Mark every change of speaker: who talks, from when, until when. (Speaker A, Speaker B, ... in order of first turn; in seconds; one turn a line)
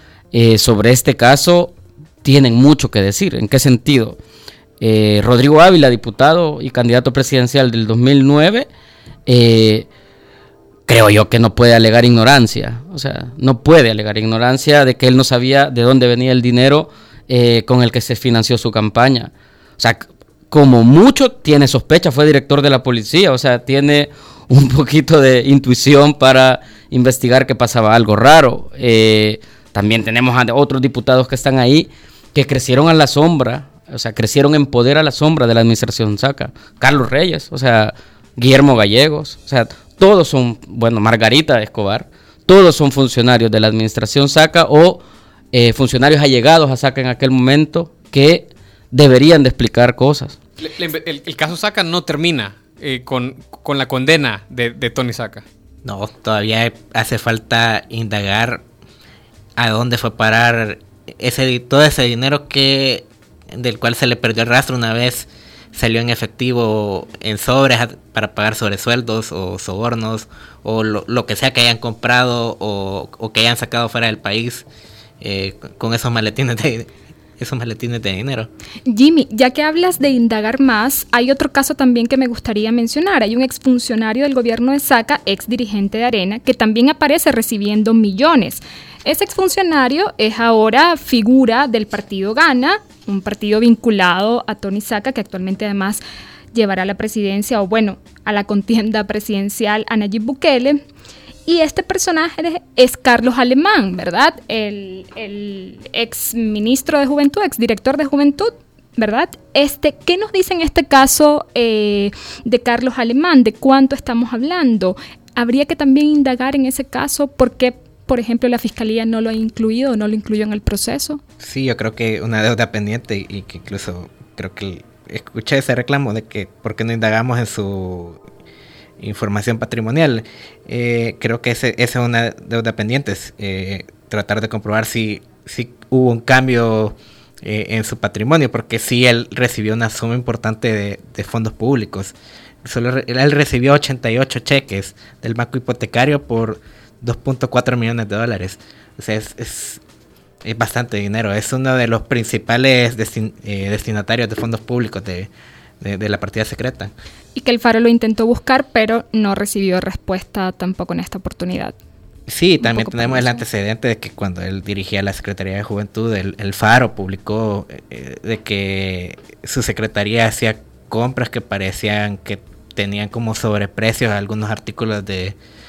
Speaker A: 0.3-4.2
Speaker A: 4.8-8.7
Speaker A: 9.2-9.9
Speaker A: 10.9-50.4
Speaker B: 50.6-55.4
Speaker C: 55.8-58.6
Speaker C: 59.6-74.7
Speaker C: 75.2-78.5
Speaker D: 78.8-96.0
Speaker D: 96.5-100.8
Speaker D: 101.5-121.2
Speaker C: 121.4-128.2
Speaker C: 129.0-149.8
Speaker C: 150.4-155.3
Speaker C: 155.8-156.9
Speaker D: 157.3-161.7
Speaker C: 162.3-175.3
Speaker D: 162.6-163.4